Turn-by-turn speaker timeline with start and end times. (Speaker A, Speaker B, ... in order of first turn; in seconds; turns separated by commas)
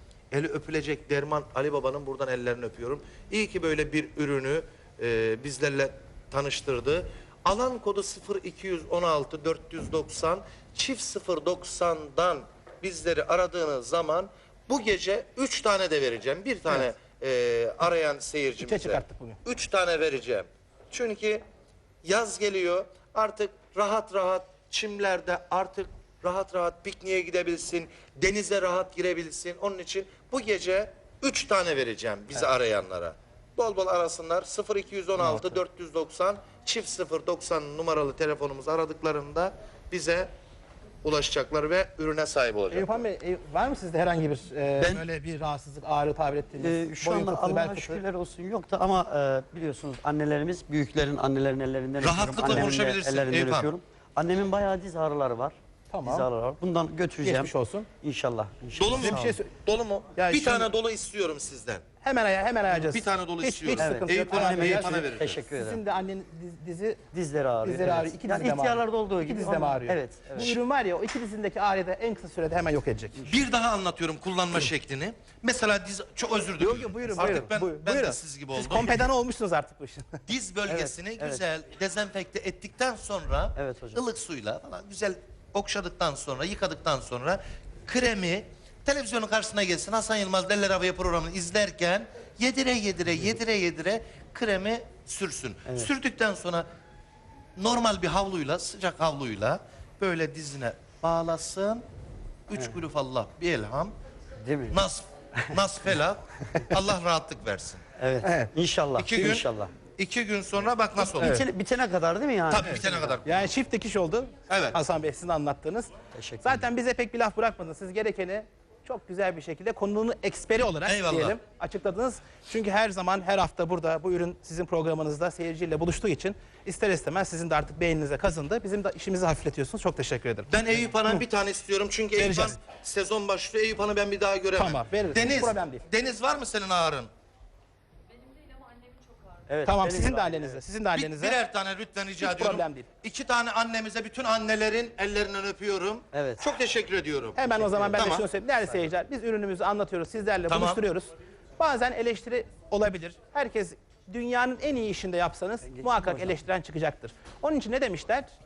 Speaker A: 0.3-21.4, Speaker B: 18.6-19.4, Speaker A: 22.0-40.3, Speaker C: 35.2-35.6, Speaker A: 41.0-43.0, Speaker B: 42.7-48.0, Speaker C: 44.8-45.0, Speaker C: 46.6-57.5, Speaker A: 52.0-53.7, Speaker B: 55.9-56.3, Speaker B: 57.2-57.9, Speaker C: 58.0-59.4, Speaker A: 58.8-61.8, Speaker B: 59.0-59.5, Speaker B: 60.2-60.7, Speaker B: 62.0-67.0, Speaker A: 62.7-65.4, Speaker C: 63.8-65.8, Speaker C: 67.1-70.6, Speaker B: 67.6-73.2, Speaker A: 73.2-79.0, Speaker B: 76.6-80.2, Speaker A: 80.3-96.7, Speaker C: 80.7-81.4, Speaker C: 83.5-84.0, Speaker A: 97.6-101.8, Speaker A: 102.5-104.0, Speaker C: 104.4-104.8, Speaker A: 104.7-107.9, Speaker C: 108.0-109.7, Speaker B: 108.2-108.5, Speaker A: 109.0-111.4, Speaker C: 111.0-113.2, Speaker B: 111.2-111.5, Speaker A: 112.5-113.3, Speaker B: 112.7-115.9, Speaker A: 114.5-114.8, Speaker C: 116.2-116.7, Speaker B: 116.4-130.5, Speaker A: 120.8-121.4, Speaker A: 130.5-137.1, Speaker B: 132.2-132.6, Speaker B: 134.6-135.8, Speaker C: 139.5-140.6, Speaker B: 139.7-141.4, Speaker A: 140.9-147.4, Speaker B: 142.2-142.9, Speaker C: 146.1-146.4, Speaker B: 147.4-158.3, Speaker C: 147.6-147.9, Speaker A: 147.9-148.3, Speaker A: 150.5-150.8, Speaker C: 155.6-156.4